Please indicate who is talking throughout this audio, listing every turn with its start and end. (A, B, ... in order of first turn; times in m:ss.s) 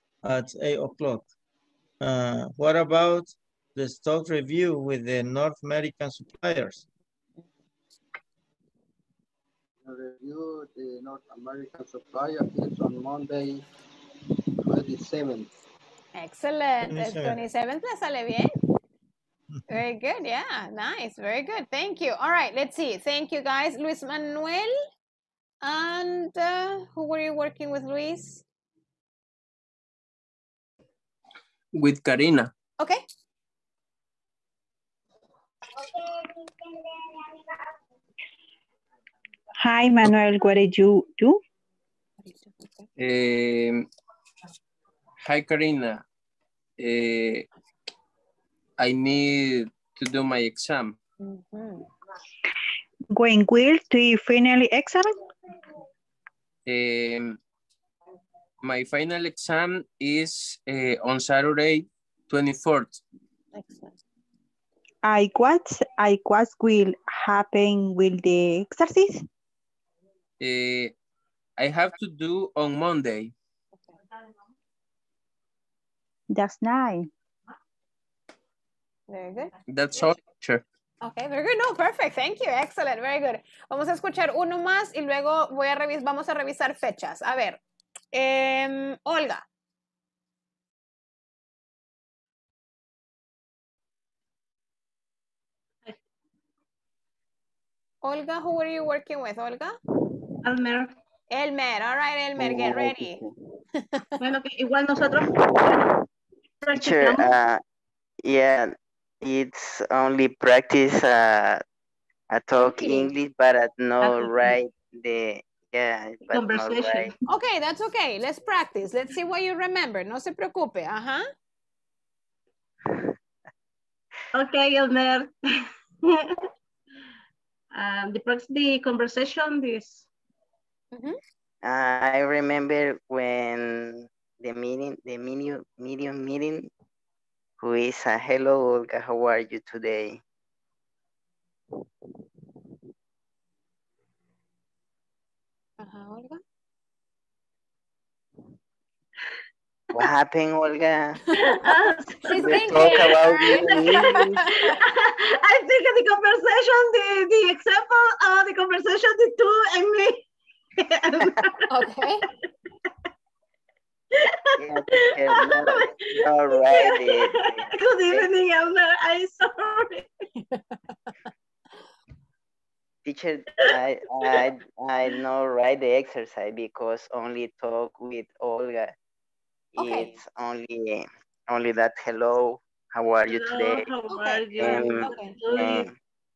0:00.2-0:01.3 A
0:02.0-0:06.9 A
0:09.8-0:13.6 B
0:14.6-0:15.5 B
0:16.2-0:18.5 C
0:16.8-0:17.4 A
0:19.7-0:24.7 C
0:25.6-0:28.4 C
0:31.8-0:32.5 D
0:39.6-0:41.4 E
0:42.2-0:42.9 C
0:43.0-0:43.9 D
0:45.2-0:46.0 D
0:46.8-0:47.5 D
0:48.8-0:51.0 D
0:51.2-0:51.8 C
0:53.1-0:55.2 E
0:56.7-0:57.4 D
0:58.6-1:03.0 D
1:03.5-1:04.0 C
1:05.0-1:09.2 E
1:10.4-1:10.9 D
1:11.6-1:13.3 D
1:16.3-1:17.1 E
1:19.1-1:19.5 C
1:19.7-1:20.6 D
1:21.0-1:27.6 C
1:28.1-1:29.4 C
1:38.0-1:39.8 C
1:40.4-1:40.9 F
1:41.3-1:43.2 C
1:42.4-1:43.3 B
1:43.8-1:44.1 C
1:44.2-1:45.8 F
1:45.2-1:45.9 G
1:46.6-1:47.3 F
1:46.7-1:47.6 G
1:48.2-1:51.6 G
1:52.3-1:57.1 G
1:52.7-1:53.0 C
1:54.0-1:54.6 F
1:56.3-1:57.1 F
1:57.3-2:01.2 C
2:04.3-2:05.3 F
2:06.0-2:06.4 F
2:07.7-2:10.1 F
2:10.9-2:11.2 C
2:11.6-2:16.7 G
2:17.6-2:20.2 G
2:25.8-2:26.4 C
2:30.0-2:31.2 G
2:31.3-2:40.3 F
2:32.3-2:34.7 C
2:32.4-2:34.4 G
2:40.8-2:41.7 F
2:41.7-2:42.2 C
2:44.1-2:50.1 F
2:44.6-2:48.3 G
2:50.4-2:50.8 C
2:53.0-2:58.9 G
2:59.8-3:03.9 G
2:59.8-3:00.1 C
3:03.3-3:05.9 F
3:04.1-3:05.4 C
3:04.6-3:05.9 G